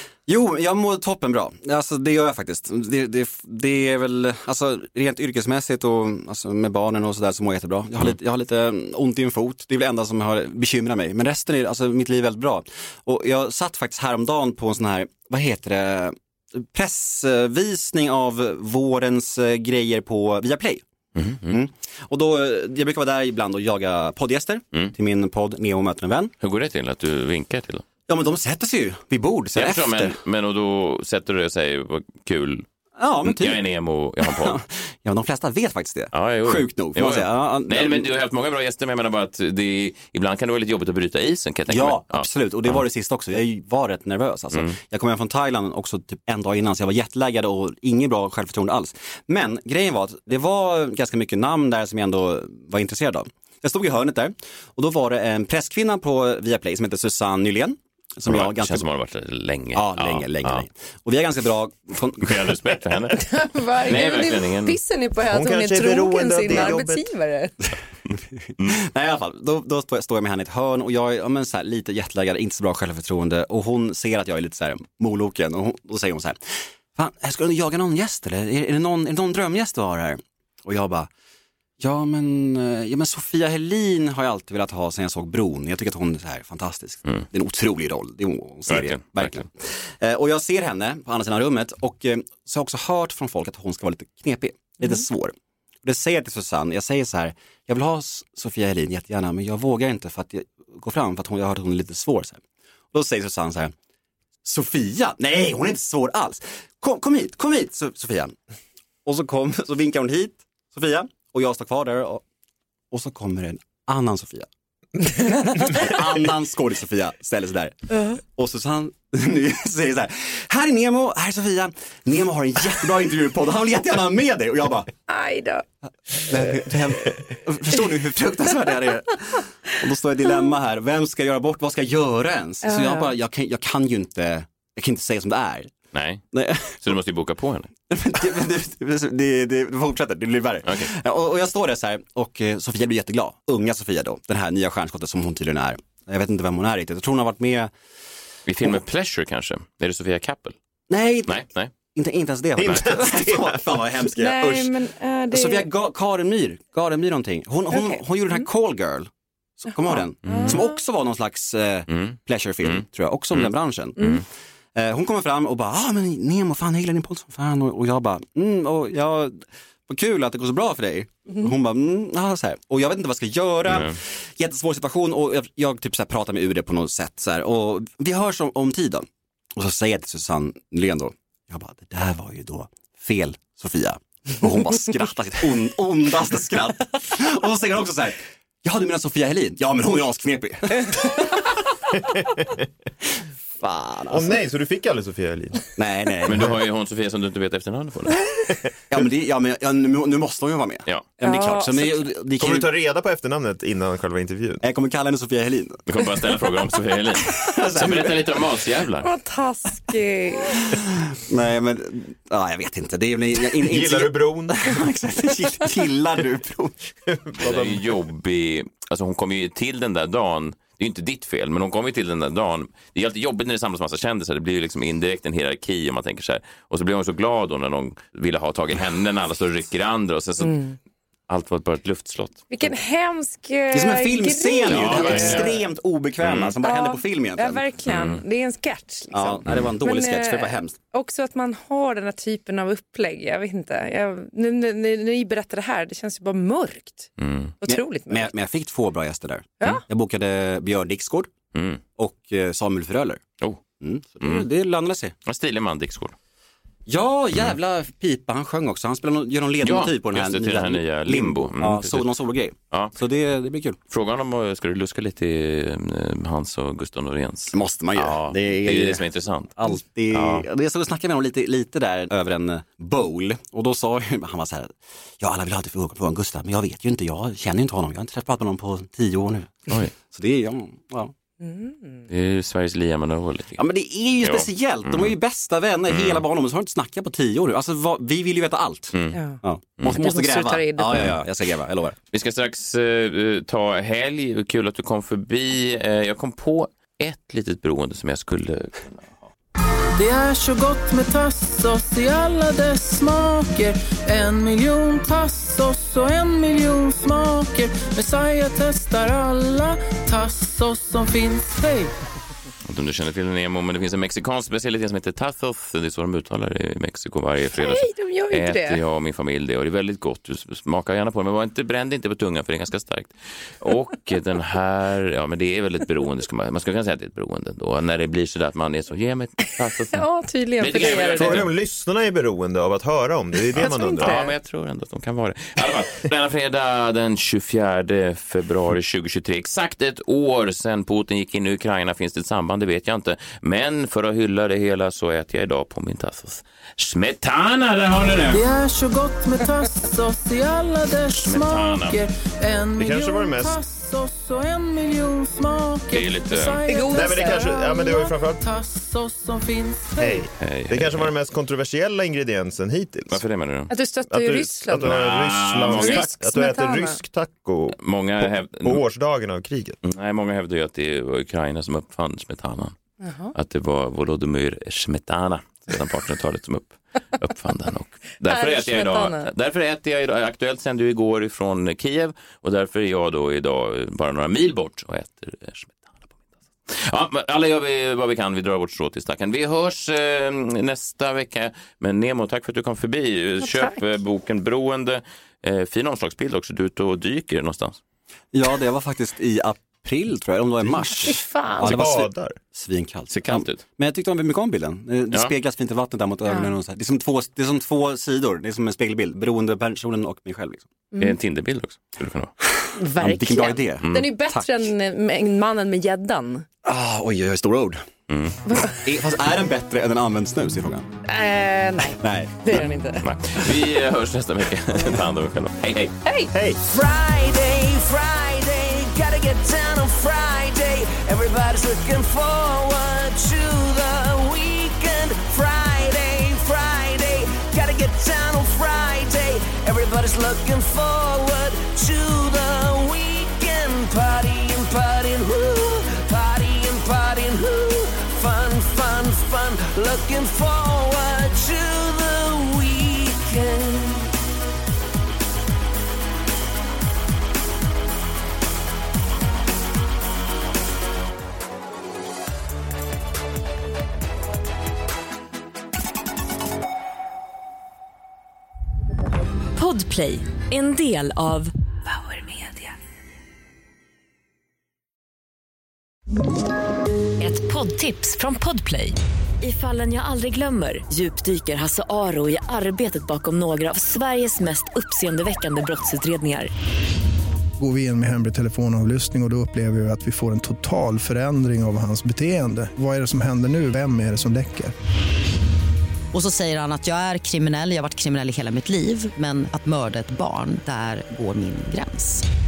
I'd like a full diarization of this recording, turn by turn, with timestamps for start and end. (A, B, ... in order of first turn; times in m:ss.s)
0:00.3-0:20.8 A
0:21.2-0:21.6 B
0:21.5-0:26.3 A
0:26.4-0:27.8 B
0:28.1-0:30.2 A
0:29.6-0:32.6 B
0:33.0-0:33.6 A
0:33.2-0:34.6 B
0:34.2-0:38.1 A
0:36.1-0:42.8 B
0:41.7-0:58.8 A
0:58.3-1:00.6 B
0:59.7-1:02.6 A
1:02.2-1:03.3 B
1:03.1-1:07.5 C
1:03.8-1:04.8 B
1:05.3-1:07.0 D
1:08.6-1:16.4 A
1:17.0-1:21.1 A
1:21.8-1:42.4 A
1:28.7-1:29.4 B
1:42.9-1:43.7 A
1:44.4-1:48.4 A
1:49.0-1:52.2 A
1:52.9-1:54.5 A
1:55.0-2:04.9 A
2:05.1-2:05.6 C
2:06.2-2:15.7 A
2:12.6-2:13.1 C
2:15.9-2:17.7 B
2:16.3-2:16.8 A
2:17.9-2:27.7 A
2:20.7-2:20.9 B
2:28.5-2:30.6 B
2:30.9-2:31.4 A
2:31.3-2:31.7 B
2:32.0-2:34.8 A
2:32.6-2:33.9 D
2:34.2-2:35.7 C
2:35.3-2:39.1 A
2:37.7-2:38.4 C
2:39.6-2:44.2 A
2:39.9-2:40.7 C
2:40.3-2:40.6 B
2:41.9-2:44.2 B
2:44.8-3:11.5 A
2:53.6-2:54.0 B
3:13.6-3:14.4 A
3:14.1-3:15.6 D
3:15.8-3:16.5 A
3:16.2-3:18.2 B
3:18.9-3:22.7 A
3:21.2-3:21.9 C
3:22.4-3:24.6 D
3:24.6-3:25.8 A
3:25.9-3:29.1 B
3:27.2-3:28.2 A
3:29.0-3:30.6 C
3:30.8-3:36.9 A
3:33.6-3:34.8 D
3:37.1-3:37.8 D
3:37.4-3:50.6 B
3:50.4-3:50.8 C
3:51.3-3:52.5 B
3:52.5-3:55.6 C
3:53.7-3:57.6 A
3:54.7-3:55.6 B
3:56.2-3:56.6 B
3:56.6-4:07.1 C
3:57.9-3:58.2 B
3:59.1-4:00.8 A
4:07.2-4:07.6 B
4:07.6-4:08.3 C
4:07.6-4:11.3 A
4:11.5-4:11.8 B
4:12.0-4:13.2 A
4:13.8-4:15.1 A
4:14.2-4:14.5 B
4:15.2-4:16.1 B
4:16.9-4:23.8 A
4:19.6-4:22.1 B
4:23.9-4:29.6 B
4:27.5-4:29.0 A
4:29.6-4:41.1 A
4:30.1-4:30.5 B
4:41.4-4:42.0 C
4:42.1-4:43.6 B
4:43.6-4:52.0 A
4:44.2-4:45.2 B
4:45.9-4:46.2 B
4:48.9-4:49.2 B
4:49.1-4:51.1 C
4:52.1-4:59.1 B
5:00.0-5:12.0 E
5:12.7-5:30.1 B
5:17.5-5:18.8 C
5:29.9-5:31.5 C
5:30.6-5:31.5 B
5:30.9-5:34.2 D
5:33.6-5:34.3 C
5:33.8-5:48.4 B
5:48.3-6:00.2 E
5:51.1-5:52.0 B
5:52.8-5:53.6 D
5:55.9-5:56.6 B
5:56.7-5:57.8 C
5:56.9-5:58.4 D
6:00.0-6:03.2 D
6:00.3-6:01.1 B
6:03.1-6:03.7 B
6:03.7-6:05.0 C
6:04.1-6:09.8 D
6:04.8-6:06.1 B
6:05.6-6:07.0 C
6:07.8-6:08.8 B
6:09.8-6:12.8 B
6:13.0-6:13.3 C
6:13.3-6:26.1 B
6:18.2-6:19.3 C
6:26.7-6:37.8 B
6:33.4-6:33.8 C
6:38.3-6:50.7 A
6:41.1-6:41.7 C
6:41.6-6:42.4 D
6:43.1-6:43.6 B
6:46.3-6:46.5 C
6:50.9-6:51.2 C
6:51.0-6:52.3 B
6:52.6-6:54.6 A
6:52.8-6:56.5 C
6:53.8-6:54.1 B
6:56.6-6:57.8 A
6:58.1-6:58.4 B
6:58.5-6:58.8 C
6:58.7-7:00.9 A
7:01.0-7:03.0 C
7:02.0-7:02.6 A
7:02.5-7:06.0 B
7:06.0-7:06.3 C
7:06.7-7:34.1 F
7:49.6-7:52.7 G
7:57.2-8:06.5 G
8:07.6-8:14.7 H
8:16.1-8:22.2 I